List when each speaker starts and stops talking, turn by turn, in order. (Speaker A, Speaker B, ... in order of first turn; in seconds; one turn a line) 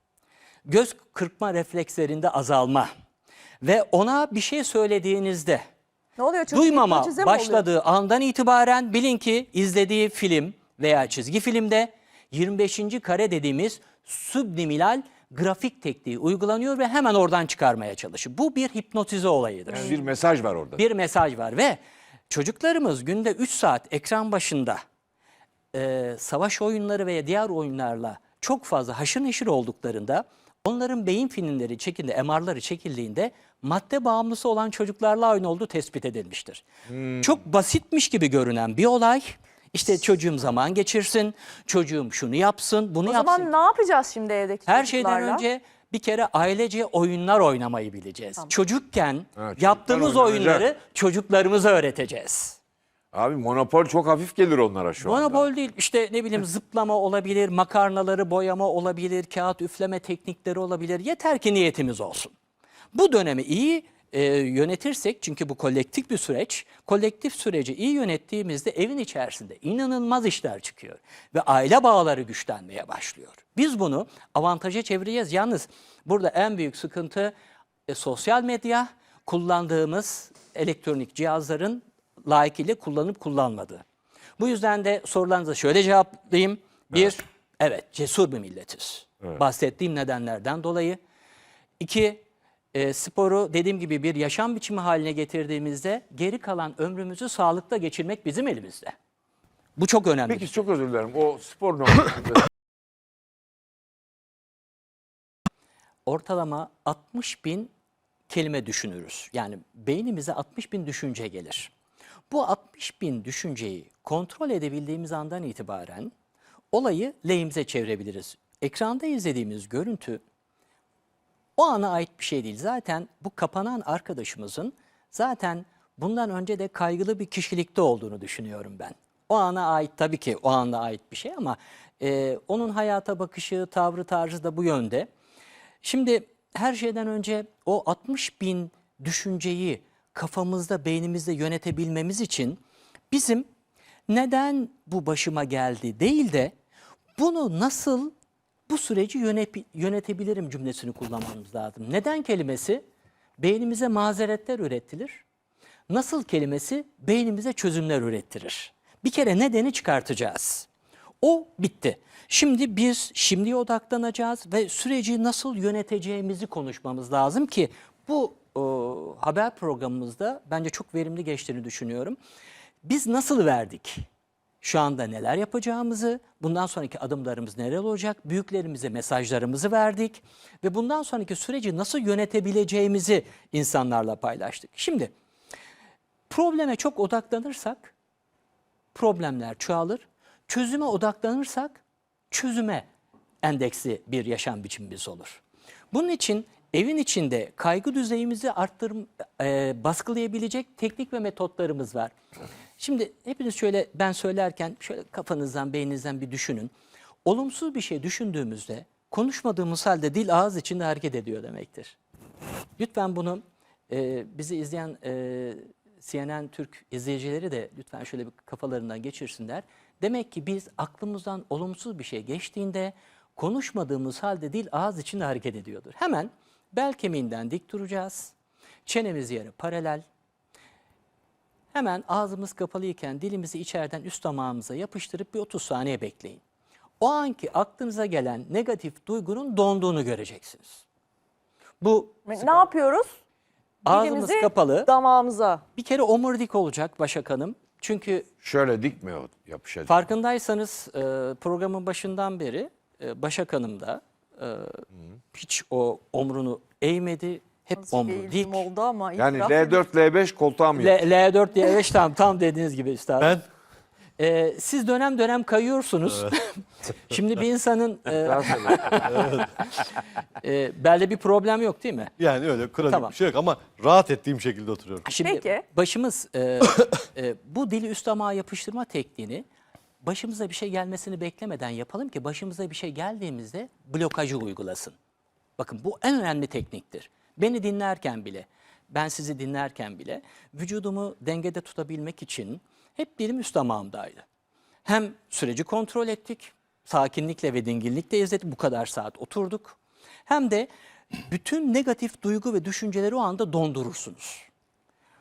Speaker A: 0.7-2.9
Speaker A: 3.6-5.6
Speaker B: 6.2-7.6
Speaker A: 6.5-19.9
Speaker C: 19.7-20.8
Speaker A: 20.8-24.8
Speaker A: 25.7-36.6
Speaker C: 36.9-37.4
Speaker A: 37.2-43.5
Speaker B: 43.0-45.4
Speaker A: 44.7-52.6
Speaker C: 49.4-50.7
Speaker C: 53.1-55.5
Speaker A: 55.0-62.3
Speaker A: 62.9-77.3
Speaker A: 77.9-83.8
Speaker A: 84.4-91.0
Speaker A: 91.8-99.0
Speaker A: 99.8-100.5
Speaker C: 100.3-102.5
Speaker A: 106.0-107.7
Speaker A: 108.3-111.7
Speaker A: 112.3-116.1
Speaker A: 116.7-120.2
Speaker A: 121.6-135.1
Speaker A: 135.8-143.5
Speaker A: 144.1-146.5
Speaker A: 147.2-148.1
Speaker A: 148.7-152.8
Speaker A: 153.4-155.2
Speaker A: 155.9-160.7
Speaker A: 161.2-172.2
Speaker A: 172.8-174.1
Speaker A: 174.6-185.1
Speaker A: 186.3-187.9
Speaker A: 188.9-192.9
Speaker A: 193.4-202.1
Speaker A: 202.8-206.7
Speaker A: 207.2-212.0
Speaker A: 212.8-228.3
Speaker A: 228.8-230.0
Speaker A: 231.7-236.4
Speaker A: 237.0-240.8
Speaker A: 241.8-242.6
Speaker B: 242.3-243.1
Speaker B: 243.8-245.6
Speaker A: 243.8-244.9
Speaker A: 245.8-248.3
Speaker C: 248.4-250.0
Speaker A: 249.9-258.7
Speaker B: 257.8-259.8
Speaker C: 259.2-261.0
Speaker A: 260.8-263.4
Speaker A: 264.2-269.4
Speaker C: 268.2-269.1
Speaker D: 269.0-269.5
Speaker A: 270.4-272.1
Speaker D: 272.2-275.0
Speaker A: 272.9-273.1
Speaker A: 275.0-279.4
Speaker B: 275.2-275.6
Speaker A: 280.0-284.9
Speaker A: 285.6-294.2
Speaker A: 294.8-304.5